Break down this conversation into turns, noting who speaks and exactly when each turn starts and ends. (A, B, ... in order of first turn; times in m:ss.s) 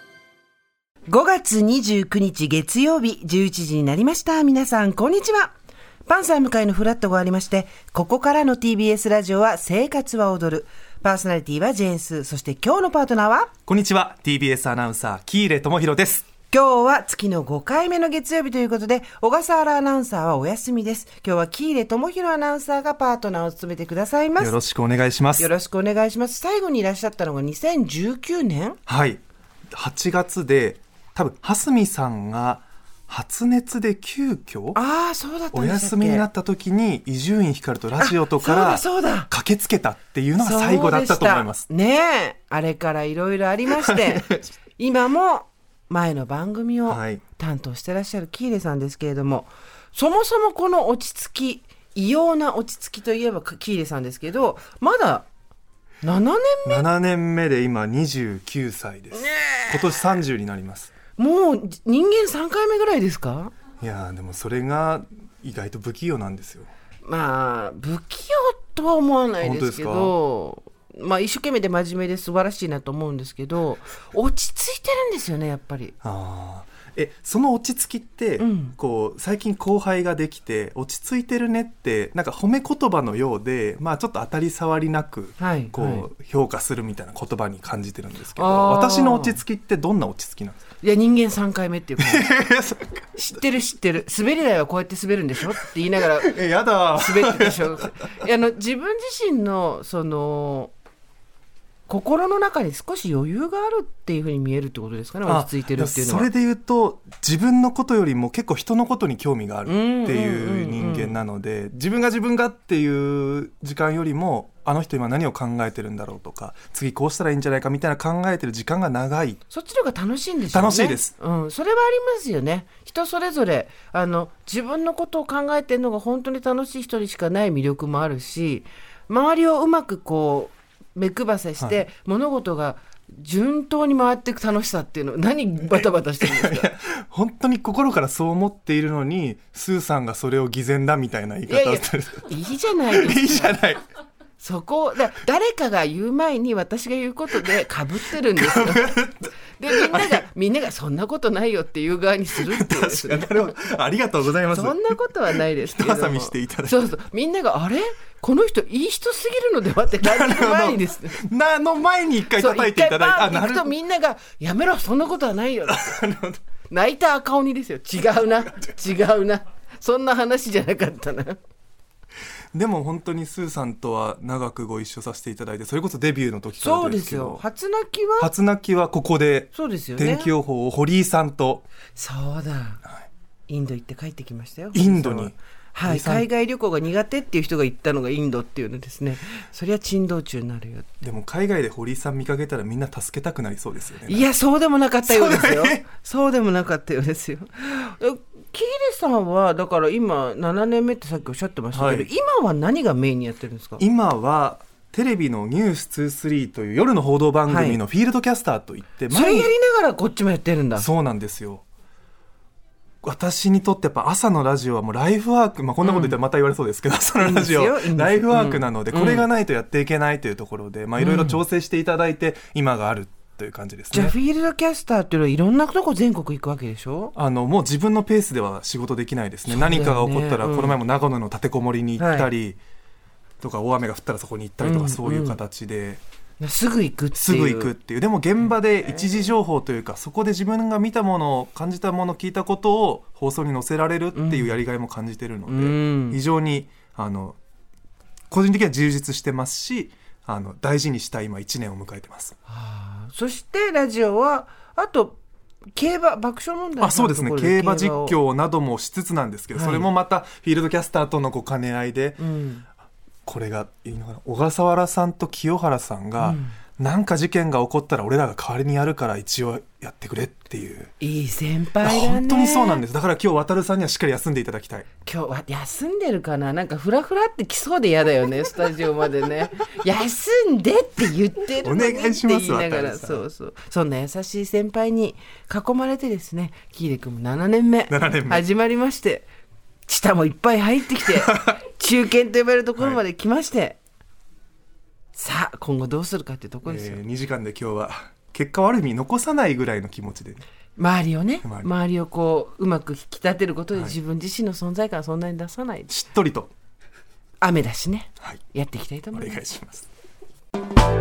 0:01.1-0:05.5 A
0:06.0-0:13.5 A
0:13.7-0:16.2 B
0:16.5-0:24.5 A
0:24.4-0:25.5 B
0:25.4-0:28.8 A
0:28.9-0:29.2 B
0:29.7-0:34.8 B
0:34.7-0:36.3 A
0:35.5-0:41.6 B
0:38.0-0:39.3 A
0:40.4-0:55.3 A
0:43.7-0:44.4 B
0:46.9-0:47.2 B
0:56.0-0:56.8 A
0:56.6-1:00.9 B
0:59.1-1:00.0 A
1:01.2-1:03.5 A
1:03.8-1:06.7 B
1:07.0-1:15.9 A
1:09.4-1:10.1 B
1:16.0-1:30.6 B
1:18.4-1:18.7 A
1:25.4-1:26.1 A
1:28.4-1:29.4 A
1:30.8-1:32.3 A
1:32.0-1:33.4 B
1:33.2-1:36.4 A
1:36.0-1:38.1 B
1:36.9-1:40.7 A
1:41.9-1:46.3 A
1:45.2-1:59.4 B
1:49.6-1:51.2 A
1:59.5-2:16.7 A
2:00.5-2:01.1 B
2:15.7-2:23.8 B
2:21.5-2:23.6 A
2:24.4-2:29.0 A
2:28.4-2:30.2 B
2:29.6-2:33.5 A
2:32.3-2:36.9 B
2:34.5-2:41.2 A
2:40.0-2:43.7 B
2:42.3-2:46.0 A
2:45.6-2:46.4 B
2:46.7-2:51.4 A
2:52.5-2:57.4 B
2:56.6-2:58.3 A
2:58.2-3:01.6 B
2:59.5-3:00.3 A
3:01.9-3:02.8 A
3:03.5-3:10.9 A
3:04.7-3:06.3 B
3:11.0-3:14.3 B
3:14.0-3:23.8 A
3:15.0-3:15.8 B
3:21.7-3:22.1 B
3:23.8-3:29.5 B
3:27.5-3:27.8 A
3:29.1-3:30.9 A
3:30.8-3:31.6 B
3:33.0-3:44.1 B
3:35.8-3:36.2 A
3:37.2-3:39.3 A
3:41.0-3:41.4 A
3:43.9-3:47.1 A
3:47.1-3:52.6 B
3:49.5-3:50.8 A
3:52.0-3:52.3 A
3:53.4-3:56.0 B
3:54.6-3:55.4 A
3:56.4-3:57.7 A
3:57.2-4:07.4 B
3:58.5-3:59.1 A
4:04.1-4:04.6 A
4:05.5-4:06.2 A
4:08.3-4:12.4 B
4:12.5-4:15.2 A
4:15.7-4:18.2 A
4:16.8-4:22.2 B
4:19.5-4:19.9 A
4:22.2-4:22.6 A
4:23.2-4:30.9 B
4:26.2-4:26.6 A
4:31.0-4:32.8 A
4:31.8-4:34.9 B
4:35.0-4:49.3 A
4:41.6-4:43.2 B
4:47.9-4:48.4 B
4:49.8-4:53.8 A
4:51.2-4:51.6 B
4:55.1-4:57.0 A
4:56.6-5:00.4 B
5:00.8-5:05.9 A
5:01.4-5:01.7 B
5:05.9-5:06.5 B
5:07.4-5:09.4 A
5:09.1-5:09.9 B